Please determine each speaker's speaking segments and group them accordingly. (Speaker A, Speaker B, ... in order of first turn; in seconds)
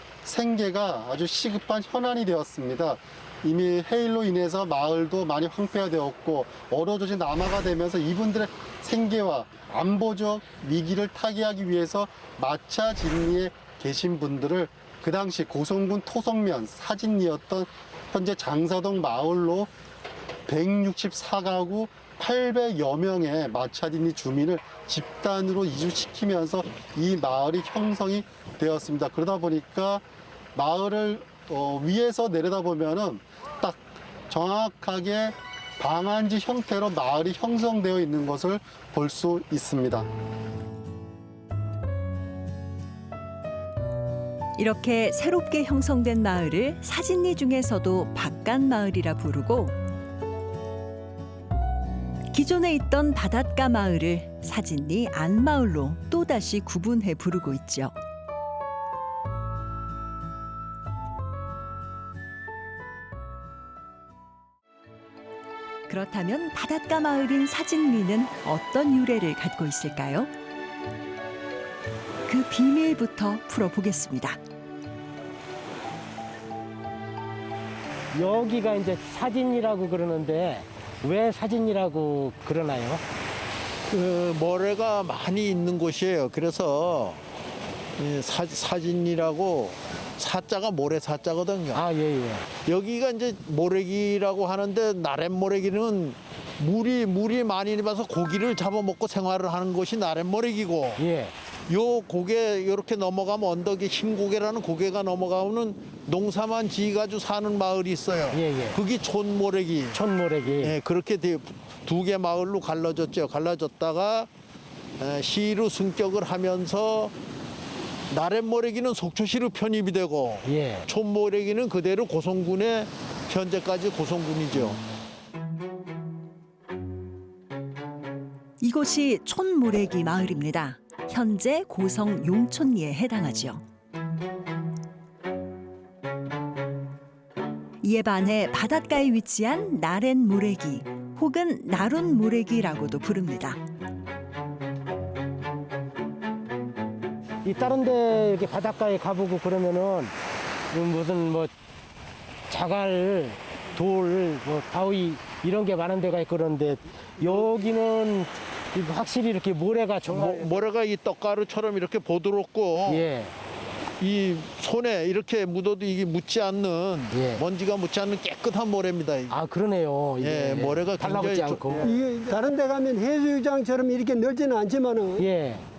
Speaker A: 0.2-19.7, 20.5-30.0, 30.6-40.1
Speaker B: 44.6-49.8, 52.3-57.9, 65.9-70.3, 72.3-74.4, 128.6-133.6, 137.8-143.6
Speaker C: 78.1-83.0, 91.7-92.5, 101.0-101.3, 108.3-108.8, 109.9-110.8, 120.4-120.9, 147.4-150.2, 150.7-151.5, 152.5-160.6, 162.8-163.3, 167.1-167.4, 169.3-172.0, 175.2-175.7
Speaker D: 83.9-87.2, 88.0-91.9, 92.6-101.0, 101.7-110.0, 110.6-114.3, 115.0-117.1, 118.1-124.8, 160.1-163.1, 164.0-169.4, 170.2-172.0
Speaker E: 171.9-175.2